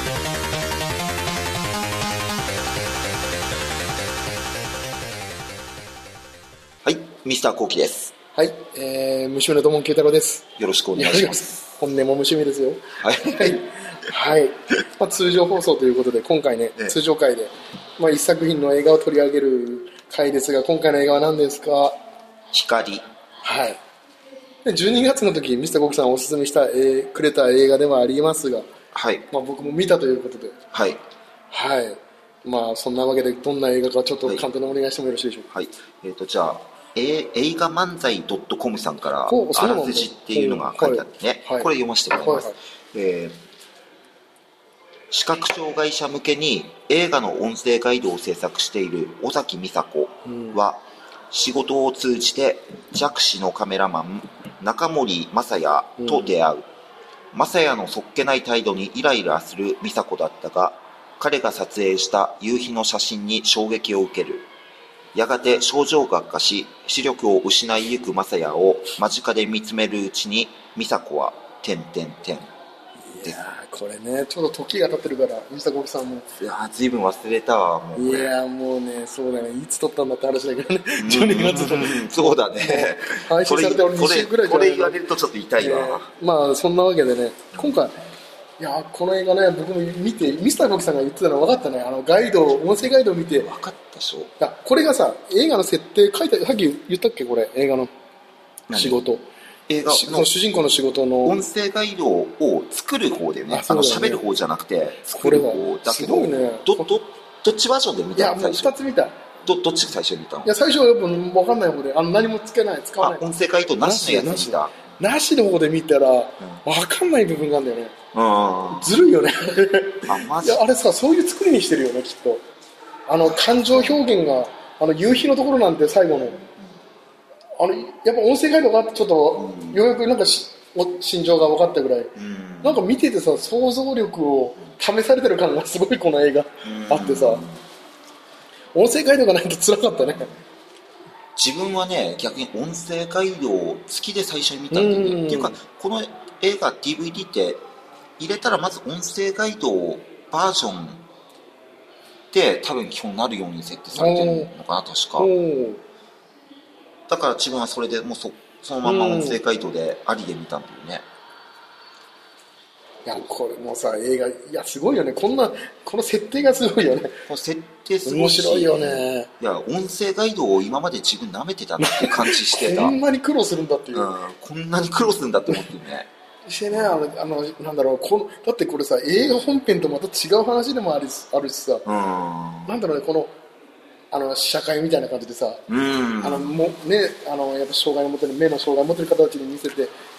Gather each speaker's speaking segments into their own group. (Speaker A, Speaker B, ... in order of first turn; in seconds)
Speaker A: 6.8-8.1, 10.6-11.6, 13.0-13.7, 22.5-23.0, 28.9-29.2, 30.7-31.0, 35.5-43.4, 45.1-56.7, 57.3-64.5, 65.1-72.5, 76.4-78.3, 81.0-86.1, 87.5-87.9, 93.4-94.3, 98.7-99.0, 99.7-100.3, 101.2-108.7, 109.4-110.5, 113.0-114.9, 118.1-119.0, 120.0-120.6, 123.2-124.0, 129.3-129.8, 132.1-132.8, 136.6-137.6, 141.3-147.6, 148.2-151.0, 152.3-155.3, 157.1-161.1, 167.3-173.0, 173.9-176.1, 176.7-177.0, 181.8-182.7, 185.7-186.6
Speaker B: 8.3-22.0, 23.4-23.8, 24.6-28.7, 29.3-30.6, 31.5-35.5, 39.3-42.6, 50.2-50.6, 56.0-56.3, 73.1-76.3, 78.0-85.0, 85.6-88.0, 88.6-93.5, 94.4-97.9, 98.7-99.3, 99.8-101.4, 103.5-104.2, 105.1-106.9, 108.2-109.2, 110.4-113.2, 113.8-117.9, 118.7-122.4, 123.1-126.4, 127.6-137.4, 138.7-140.3, 144.7-145.6, 153.9-154.5, 155.2-155.8, 158.8-159.4, 163.1-167.2, 168.1-169.3, 171.8-174.1, 176.4-181.8, 182.7-183.3, 184.1-185.6, 186.2-189.9